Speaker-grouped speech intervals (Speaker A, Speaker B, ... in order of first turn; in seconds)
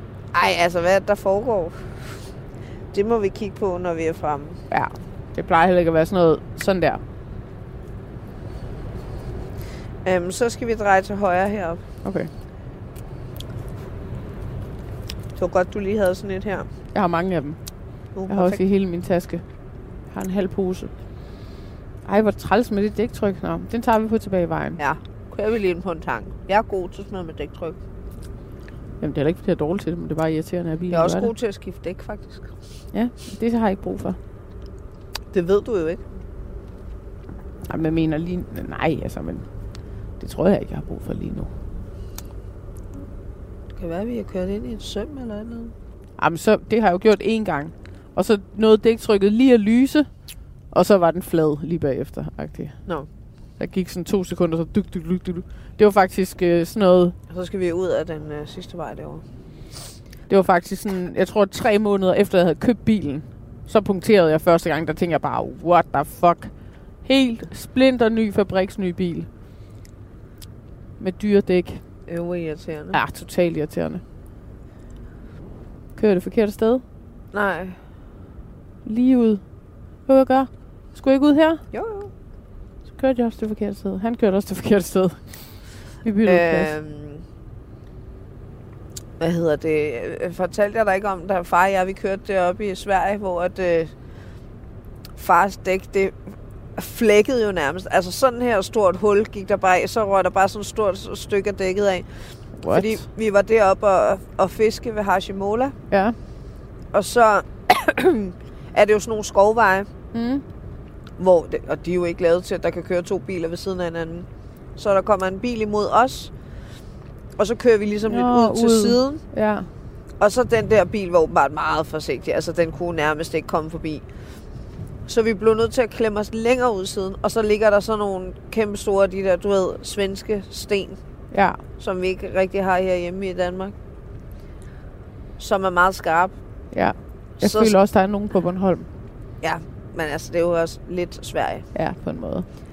Speaker A: 0.3-2.2, 2.9-4.6, 10.0-11.8, 15.3-16.7, 18.1-18.6, 24.8-27.8, 30.9-32.5, 35.3-36.0, 43.7-45.7, 57.3-59.2, 72.1-73.0, 77.3-77.8, 81.7-82.1, 86.2-87.2, 89.2-93.9, 95.2-96.2, 96.8-102.0, 102.7-105.7, 106.9-109.9, 111.2-116.3, 117.4-119.2, 120.2-124.0, 125.0-131.0, 131.8-133.7, 135.4-136.3, 137.4-137.7, 139.4-141.7
Speaker B: 4.7-7.0, 12.0-12.3, 16.9-17.6, 18.3-19.4, 20.1-20.9, 22.0-24.8, 29.0-31.3, 32.9-34.2, 37.7-39.5, 40.2-41.5, 46.2-50.1, 50.7-52.8, 53.6-57.1, 60.3-69.3, 71.0-71.8, 72.9-74.0, 76.0-76.8, 78.8-79.4, 80.0-81.6, 82.9-85.5, 86.0-86.7, 102.6-103.0, 105.9-106.2, 110.1-110.4, 118.0-119.7, 131.3-131.6, 136.7-138.9, 141.7-142.4